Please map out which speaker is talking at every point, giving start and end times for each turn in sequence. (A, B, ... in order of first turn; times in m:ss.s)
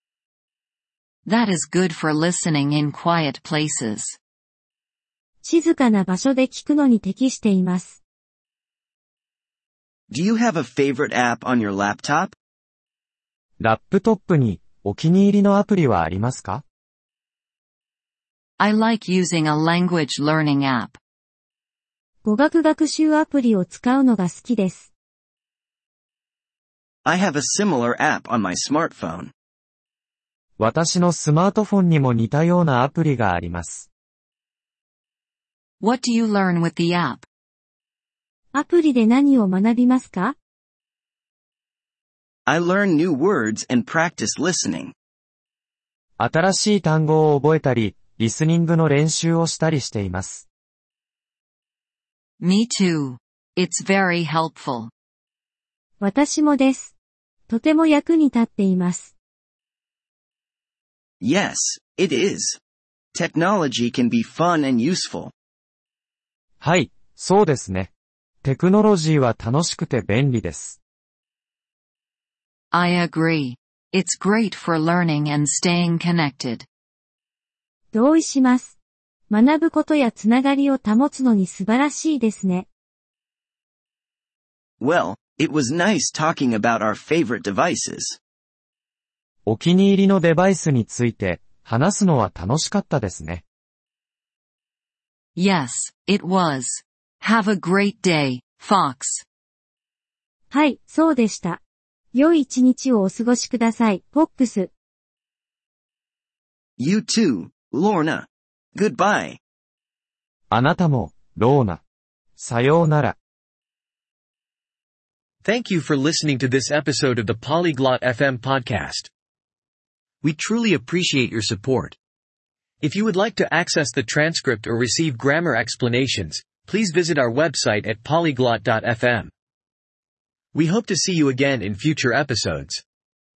0:01.3-0:04.2 A
0:05.4-0:08.0 B
0:10.1-0:12.3 C
0:13.6-0:16.6 D
0:18.6-0:21.0 A
0:22.2-0:24.9 B
0:27.0-0:29.3 C
0:30.6-0:33.9 D
0:35.8-0:37.3 A
0:38.5-0:40.4 B
0:42.5-0:44.9 C
0:46.2-0:50.4 D
0:52.4-0:54.9 A
0:56.0-0:56.9 B
0:57.5-0:59.1 B
1:01.2-1:02.6 C
1:03.1-1:05.3 C
1:06.6-1:07.9 D
1:08.4-1:10.8 D
1:12.7-1:16.7 A
1:17.9-1:18.8 B
1:19.3-1:22.7 B
1:24.8-1:28.2 C
1:29.5-1:33.4 D
1:35.4-1:39.2 A
1:40.5-1:41.6 B
1:42.1-1:44.7 B
1:46.8-1:49.4 C
1:50.5-1:51.8 D
1:52.4-1:53.2 D
1:55.4-1:59.1 E
2:00.2-2:02.0 E
2:02.8-2:09.3 E
2:10.5-2:12.8 E